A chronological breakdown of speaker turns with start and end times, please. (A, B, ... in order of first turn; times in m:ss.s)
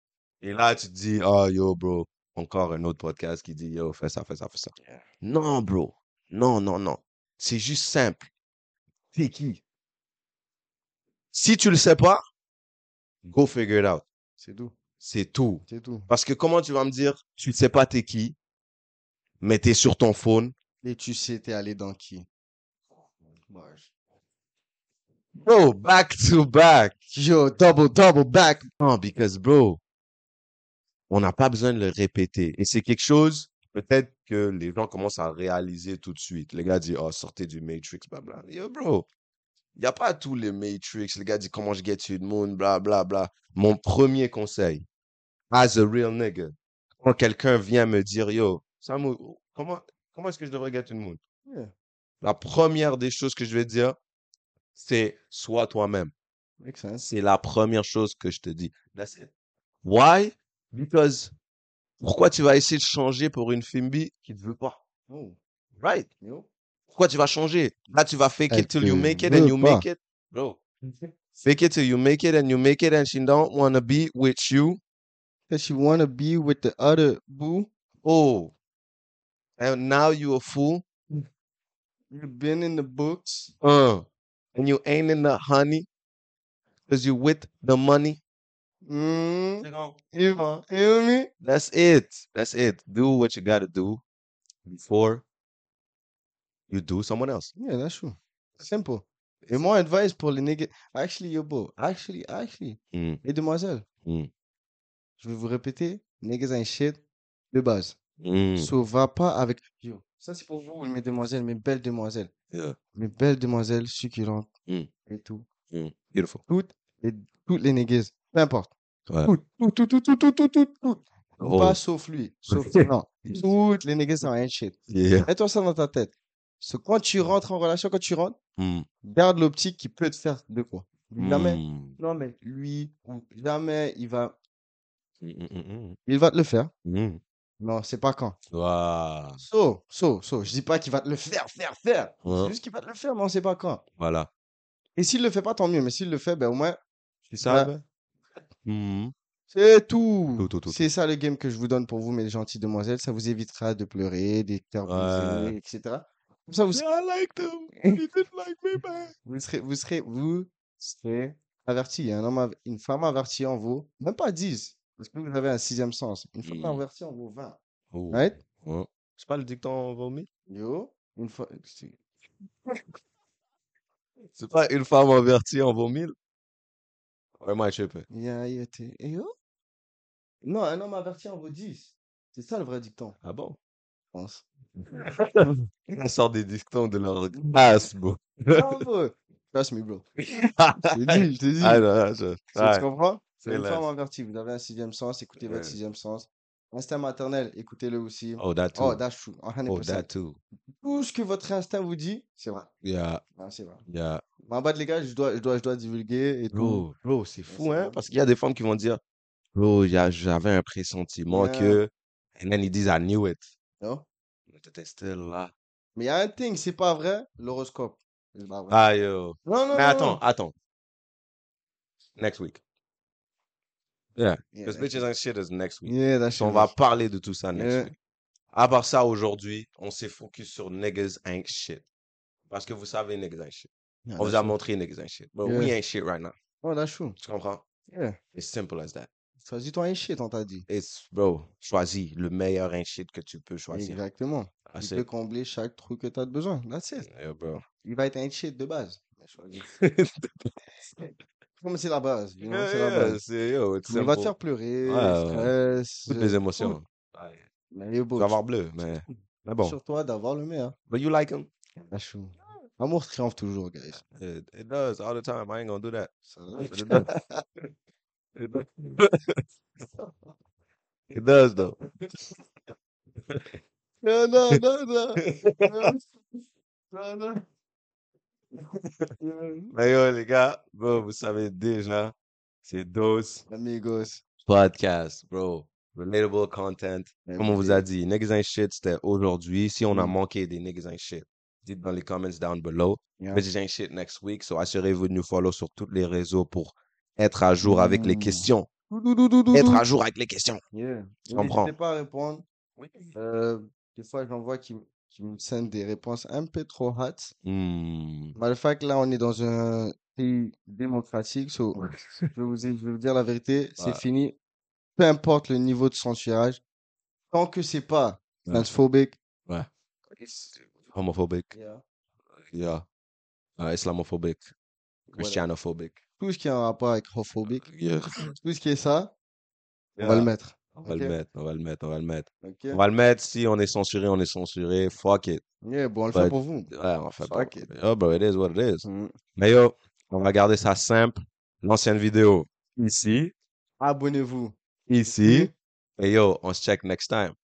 0:00.4-0:08.3 A
0:04.8-0:05.0 B
0:09.1-0:09.6 A
0:11.3-0:12.2 A
0:13.2-0:14.0 A
0:14.4-0:14.8 B
0:15.0-0:18.4 A
0:15.7-0:16.1 B
0:19.4-0:20.5 A
0:20.8-0:22.2 B
0:23.5-0:23.9 B
0:25.3-0:27.0 A
0:27.1-0:28.7 B
0:28.8-0:29.8 A
0:31.1-0:39.1 A
0:39.8-0:44.8 A
0:45.5-0:51.2 A
0:51.4-0:51.7 B
0:52.2-0:54.0 A
0:54.7-0:56.1 A
0:56.6-0:57.1 B
0:57.0-0:59.3 A
0:59.8-1:01.3 A
1:02.0-1:04.8 A
1:05.1-1:05.4 B
1:05.8-1:06.1 A
1:06.2-1:06.5 B
1:06.9-1:14.8 A
1:08.5-1:09.9 B
1:15.5-1:17.7 B
1:18.0-1:18.5 A
1:19.6-1:20.8 A
1:22.1-1:23.5 B
1:23.6-1:25.9 A
1:26.9-1:28.2 A
1:28.8-1:31.3 B
1:29.6-1:30.6 A
1:31.4-1:34.0 A
1:34.6-1:35.2 A
1:36.7-1:37.5 A
1:37.6-1:43.8 B
1:42.9-1:43.2 A
1:44.0-1:44.3 A
1:45.2-1:47.0 B
1:47.5-1:48.0 B
1:48.2-1:48.7 A
1:48.6-1:52.3 B
1:52.9-1:54.5 B
1:55.1-1:55.4 B
1:55.7-1:56.4 A
1:56.5-1:58.7 B
1:59.1-1:59.3 A
1:59.2-2:08.4 B
2:01.4-2:01.8 A
2:02.5-2:03.4 A
2:04.9-2:05.3 A
2:08.6-2:08.9 A
2:09.0-2:14.4 B
2:11.2-2:12.0 A
2:15.2-2:16.0 A
2:16.0-2:16.7 B
2:16.8-2:17.2 A
2:17.6-2:18.4 B
2:18.5-2:19.4 A
2:19.4-2:23.8 B
2:22.2-2:22.5 A
2:24.0-2:24.3 A
2:25.0-2:26.8 B
2:27.3-2:27.8 A
2:27.4-2:27.7 B
2:28.6-2:29.1 A
2:29.5-2:36.8 B
2:30.4-2:30.9 A
2:34.9-2:35.6 A
2:36.7-2:39.1 A
2:39.2-2:47.6 B
2:46.4-2:46.8 A
2:47.9-2:50.3 A
2:50.5-2:52.0 B
2:54.3-2:56.1 A
2:57.4-2:58.0 A
2:58.1-2:59.3 B
3:00.4-3:03.2 B
3:03.2-3:03.6 A
3:04.1-3:04.4 B
3:04.8-3:08.8 A
3:08.5-3:10.0 B
3:10.2-3:12.8 A
3:10.9-3:11.8 B
3:12.5-3:20.1 B
3:13.4-3:13.9 A
3:15.4-3:15.8 A
3:18.4-3:19.0 A
3:19.7-3:20.4 A
3:20.8-3:22.7 B
3:22.8-3:23.2 A
3:23.3-3:23.8 B
3:23.9-3:24.2 A
3:24.4-3:26.8 B
3:26.5-3:29.0 A
3:27.5-3:28.0 B
3:29.5-3:33.4 A
3:31.3-3:31.8 B
3:33.8-3:34.1 B
3:34.5-3:35.5 A
3:35.9-3:38.8 B
3:38.7-3:40.5 A
3:39.4-3:40.2 B
3:42.2-3:42.6 A
3:44.2-3:47.9 A
3:44.5-3:45.0 B
3:45.8-3:46.7 B
3:47.5-3:47.9 B
3:48.5-3:51.8 A
3:52.5-3:56.4 A
3:54.1-3:54.6 B
3:55.4-3:55.7 B
3:56.6-3:57.2 B
3:57.2-3:57.6 A
3:57.9-3:58.2 B
3:58.3-3:59.1 A
3:59.4-4:00.6 B
4:00.7-4:04.0 A
4:03.7-4:07.1 B
4:04.7-4:05.0 A
4:07.0-4:07.6 A
4:07.8-4:09.6 B
4:09.5-4:10.5 A
4:11.6-4:13.2 B
4:12.5-4:14.3 A
4:13.9-4:16.8 B
4:14.8-4:15.5 A
4:16.1-4:17.4 A
4:17.7-4:18.4 B
4:18.2-4:19.8 A
4:19.6-4:20.7 B
4:20.9-4:21.5 A
4:21.8-4:24.0 B
4:24.1-4:26.1 A
4:26.3-4:27.1 B
4:26.6-4:27.1 A
4:28.3-4:29.4 A
4:31.1-4:31.8 A
4:33.3-4:33.6 A
4:34.0-4:36.0 B
4:35.2-4:35.9 A
4:36.9-4:37.4 B
4:38.6-4:39.1 A
4:39.2-4:39.7 B
4:39.7-4:42.1 A
4:42.6-4:43.4 A
4:43.5-4:44.2 B
4:44.4-4:58.7 A
4:47.2-4:47.9 B
4:49.9-4:50.2 B
4:53.2-4:53.4 B
4:57.6-4:59.8 B
4:59.5-5:00.6 A
5:00.7-5:02.4 B
5:01.3-5:01.7 A
5:02.8-5:03.1 A
5:03.1-5:07.3 B
5:07.4-5:08.4 A
5:08.4-5:14.3 B
5:11.7-5:12.3 A
5:13.8-5:14.0 A
5:15.0-5:16.6 B
5:17.3-5:19.2 B
5:20.1-5:20.6 B
5:20.9-5:21.5 A
5:21.5-5:21.8 B
5:22.5-5:22.8 A
5:23.6-5:24.5 A
5:25.1-5:26.0 A
5:25.1-5:25.4 B
5:26.2-5:27.7 B
5:27.6-5:28.3 A
5:28.2-5:29.1 B
5:30.0-5:35.4 A
5:30.0-5:31.2 B
5:32.4-5:32.8 B
5:35.6-5:37.7 B
5:36.1-5:38.8 A
5:38.8-5:39.1 B
5:39.4-5:43.3 A
5:43.8-5:44.5 B
5:44.9-5:47.3 A
5:45.0-5:45.5 B